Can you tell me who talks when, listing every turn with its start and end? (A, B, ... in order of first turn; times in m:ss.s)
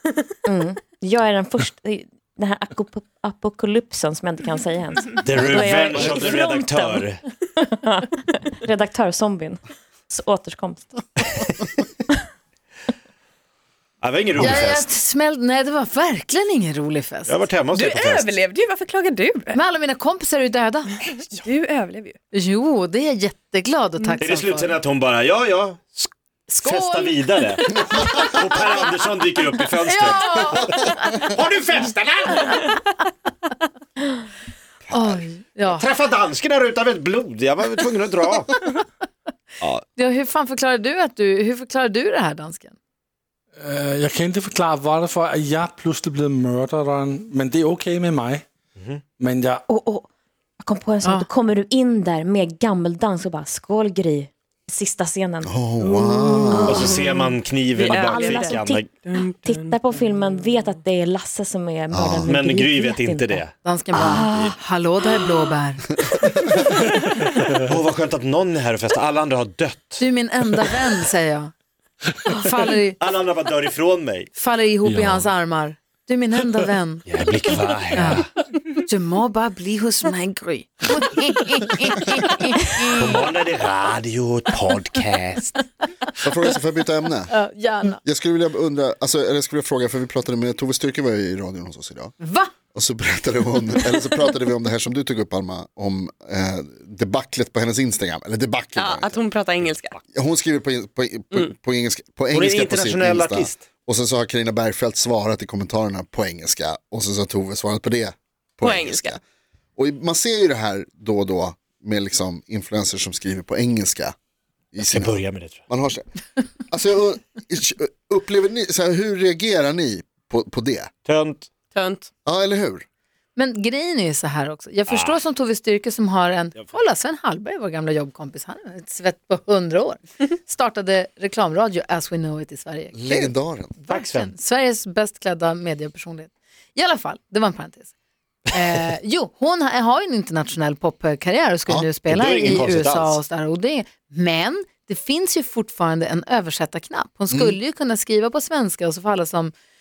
0:00.5-0:11.3 A
0:05.2-0:07.2 B
0:14.0-0:14.8 B
0:14.4-0:17.4 C
0:17.2-0:18.3 B
0:17.7-0:19.6 D
0:19.5-0:21.0 C
0:21.1-0:22.2 D
0:22.3-0:24.8 C
0:24.2-0:30.7 B
0:26.5-0:27.4 C
0:29.9-0:30.9 C
0:31.2-0:32.8 B
0:34.9-0:35.2 E
0:34.9-0:35.8 C
0:35.7-0:38.5 B
0:39.9-0:42.7 C
0:43.6-0:48.4 F
0:48.8-0:49.0 B
0:49.2-0:49.6 F
0:49.7-0:50.0 A
0:50.6-0:55.5 A
0:51.0-0:51.3 C
0:55.4-0:56.8 E
0:55.8-0:57.0 D
0:56.5-0:58.8 A
0:56.6-0:58.9 B
0:57.8-0:59.8 D
0:59.4-1:03.4 A
1:01.9-1:02.4 E
1:02.2-1:03.5 B
1:03.6-1:05.9 C
1:04.0-1:04.5 A
1:04.2-1:04.5 B
1:07.5-1:10.0 B
1:10.0-1:11.5 C
1:12.2-1:13.0 C
1:13.0-1:14.3 B
1:14.3-1:17.0 C
1:14.8-1:15.3 F
1:17.1-1:18.2 B
1:17.9-1:23.0 C
1:22.9-1:25.6 B
1:26.2-1:27.4 E
1:27.3-1:28.0 C
1:28.0-1:32.1 E
1:32.2-1:32.5 C
1:32.7-1:39.2 E
1:38.8-1:40.0 D
1:40.1-1:49.2 E
1:42.3-1:43.6 B
1:48.6-1:49.2 D
1:49.8-1:54.1 E
1:54.7-1:56.1 E
1:54.8-1:55.6 B
1:56.7-2:00.9 E
2:01.0-2:01.5 B
2:01.7-2:02.1 D
2:02.2-2:02.8 E
2:03.4-2:17.9 C
2:04.9-2:05.1 B
2:12.9-2:13.7 E
2:13.9-2:14.3 B
2:18.5-2:29.5 C
2:22.1-2:23.2 B
2:27.3-2:27.6 E